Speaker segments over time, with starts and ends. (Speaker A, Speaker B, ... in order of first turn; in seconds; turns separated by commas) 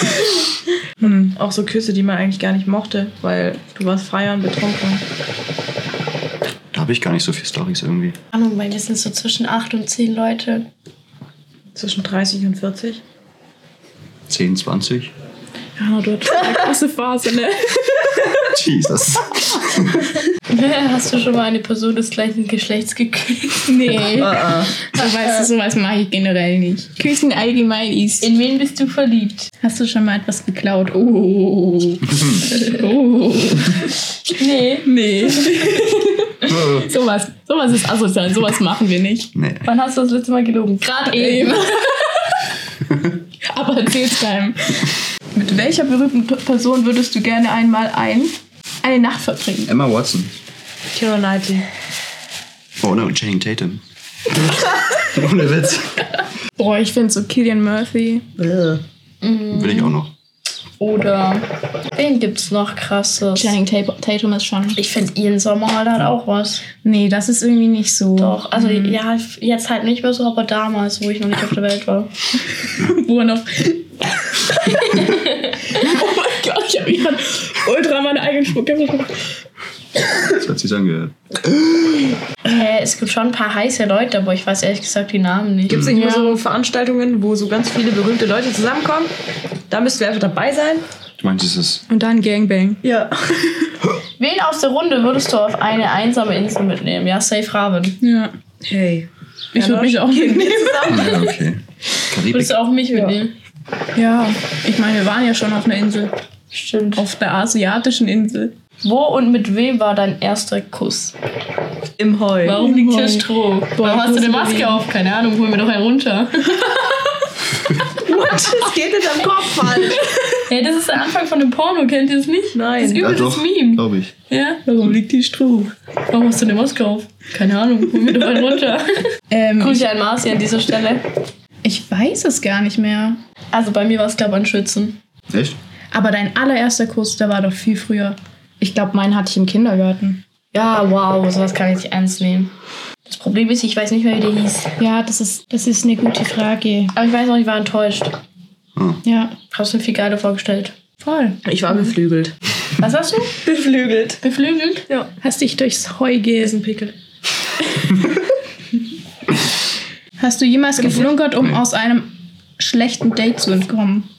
Speaker A: 1.0-1.3, Speaker B: 1.2-5.0, Speaker C: 6.7-8.2, Speaker D: 8.3-10.7, Speaker B: 11.7-13.0, Speaker C: 14.3-15.1, Speaker A: 15.8-18.1, Speaker C: 18.4-20.0, Speaker D: 20.5-24.0, Speaker A: 23.7-28.3, Speaker B: 24.1-24.7, Speaker D: 28.2-29.5, Speaker A: 29.6-33.9, Speaker D: 34.3-35.3, Speaker A: 34.8-39.3, Speaker C: 36.5-36.8, Speaker C: 39.3-39.6, Speaker D: 39.6-42.0, Speaker A: 41.1-41.6, Speaker A: 43.4-49.7, Speaker C: 49.6-50.4, Speaker B: 50.9-51.6, Speaker C: 52.8-53.8, Speaker C: 54.4-56.0, Speaker A: 56.6-58.2, Speaker B: 58.4-58.8, Speaker D: 59.2-60.0, Speaker C: 59.5-60.1, Speaker D: 60.8-63.6, Speaker A: 63.3-64.8, Speaker D: 64.7-66.6, Speaker A: 66.8-69.0, Speaker D: 68.2-72.1, Speaker A: 72.6-79.1, Speaker C: 80.4-81.1, Speaker D: 82.5-85.8, Speaker B: 85.7-89.1, Speaker C: 85.7-85.9, Speaker A: 85.9-86.4, Speaker B: 89.7-90.8, Speaker C: 91.2-91.8, Speaker A: 91.9-92.8, Speaker B: 92.8-93.2, Speaker D: 94.2-98.0, Speaker A: 98.0-98.3, Speaker B: 98.7-101.3, Speaker A: 99.5-101.2, Speaker C: 100.9-102.5, Speaker D: 102.3-103.3, Speaker A: 104.0-106.1, Speaker D: 106.5-107.1, Speaker A: 107.0-108.5, Speaker D: 108.8-111.2, Speaker B: 112.0-112.6, Speaker D: 112.4-117.0, Speaker A: 112.5-114.8, Speaker B: 118.0-120.0, Speaker D: 120.5-124.6, Speaker B: 122.5-123.1, Speaker C: 123.0-124.1, Speaker A: 124.7-125.7, Speaker D: 126.0-128.9, Speaker A: 129.3-129.8, Speaker D: 129.6-131.0, Speaker A: 131.6-133.2, Speaker D: 133.5-135.0, Speaker C: 135.3-135.6, Speaker A: 135.9-140.2, Speaker D: 140.5-142.5, Speaker D: 143.0-144.7, Speaker A: 144.8-146.9, Speaker D: 146.9-148.1, Speaker C: 148.8-149.0, Speaker A: 149.0-149.3, Speaker D: 149.5-150.8, Speaker A: 151.0-151.4, Speaker B: 151.4-152.3, Speaker D: 152.8-153.4, Speaker B: 153.4-154.2, Speaker D: 154.2-154.8, Speaker A: 155.2-156.6, Speaker B: 156.4-156.9, Speaker A: 160.2-164.1